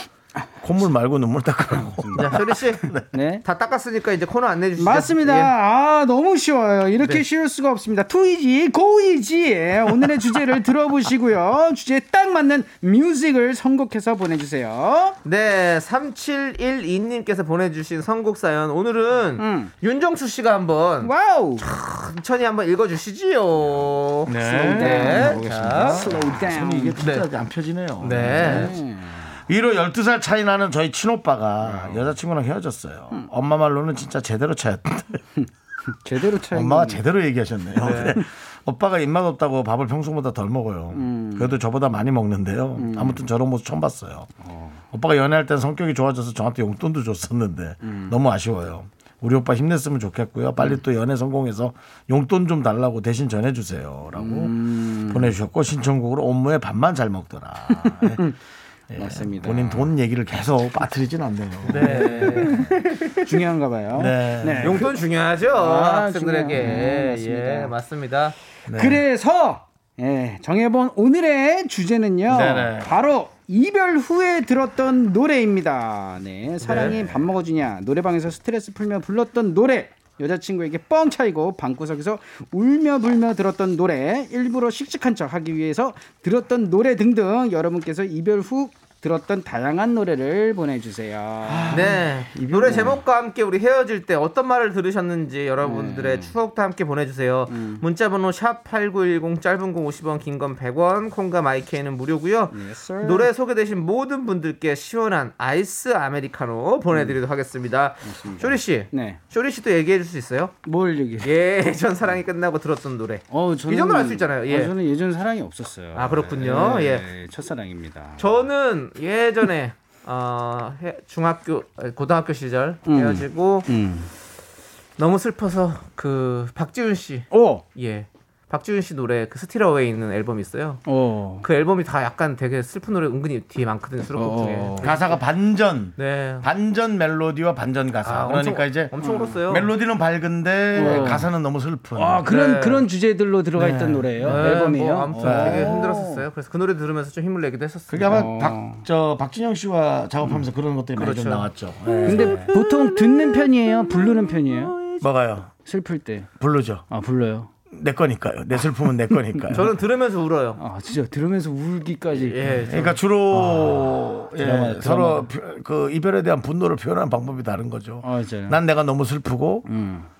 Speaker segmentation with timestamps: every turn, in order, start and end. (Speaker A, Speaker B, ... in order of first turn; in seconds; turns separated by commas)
Speaker A: 0.6-3.1, Speaker B: 2.1-2.9, Speaker C: 3.1-3.4, Speaker B: 3.4-5.5, Speaker C: 4.8-15.1, Speaker B: 15.2-26.1, Speaker C: 19.4-19.7, Speaker C: 21.0-21.6, Speaker A: 24.2-28.8, Speaker C: 24.6-27.0, Speaker B: 27.0-27.2, Speaker B: 28.0-28.8, Speaker C: 28.2-29.3, Speaker A: 29.3-35.2, Speaker C: 31.6-32.1, Speaker C: 35.4-37.0, Speaker A: 36.5-44.3, Speaker B: 37.8-38.2, Speaker C: 40.9-41.5, Speaker C: 42.8-43.2, Speaker C: 44.4-44.8, Speaker A: 44.9-58.2, Speaker C: 47.8-48.1, Speaker C: 54.2-55.3, Speaker C: 57.8-58.4, Speaker A: 58.9-62.6, Speaker C: 59.0-59.9, Speaker B: 61.7-63.3, Speaker C: 61.8-64.9, Speaker A: 63.9-64.8, Speaker B: 64.6-68.3, Speaker C: 65.5-67.7, Speaker A: 68.7-69.0, Speaker C: 68.7-92.0, Speaker A: 72.3-72.9, Speaker B: 76.6-77.0, Speaker A: 76.7-77.2, Speaker A: 91.5-93.0, Speaker B: 91.7-110.5, Speaker C: 92.7-92.9, Speaker C: 95.6-96.3, Speaker C: 97.5-97.8, Speaker C: 102.5-103.3, Speaker C: 106.9-107.2, Speaker C: 108.0-109.2, Speaker C: 110.6-111.3, Speaker B: 111.2-114.7, Speaker C: 113.3-118.3, Speaker B: 115.9-117.1, Speaker B: 118.2-123.7, Speaker C: 122.8-124.1, Speaker B: 125.0-130.8, Speaker C: 127.3-127.6, Speaker C: 130.8-131.4, Speaker B: 131.4-135.2, Speaker C: 134.1-134.9, Speaker A: 134.8-142.2, Speaker B: 136.0-136.5, Speaker B: 138.0-139.7, Speaker C: 139.0-139.3, Speaker C: 140.7-141.3, Speaker B: 140.8-141.2, Speaker C: 141.9-146.2, Speaker B: 142.2-142.9, Speaker A: 143.6-144.6, Speaker B: 144.2-148.3, Speaker A: 145.2-145.8, Speaker A: 147.9-152.5, Speaker C: 148.1-148.8, Speaker B: 151.0-151.5, Speaker C: 152.0-154.8, Speaker B: 152.0-155.0, Speaker A: 155.0-155.5, Speaker C: 155.6-156.3, Speaker A: 156.4-156.8, Speaker C: 156.9-157.5, Speaker A: 157.7-159.7, Speaker B: 159.5-160.6, Speaker C: 160.6-162.8, Speaker B: 162.1-163.0, Speaker A: 162.7-169.7, Speaker C: 163.3-165.3, Speaker C: 168.0-168.6, Speaker C: 169.7-170.1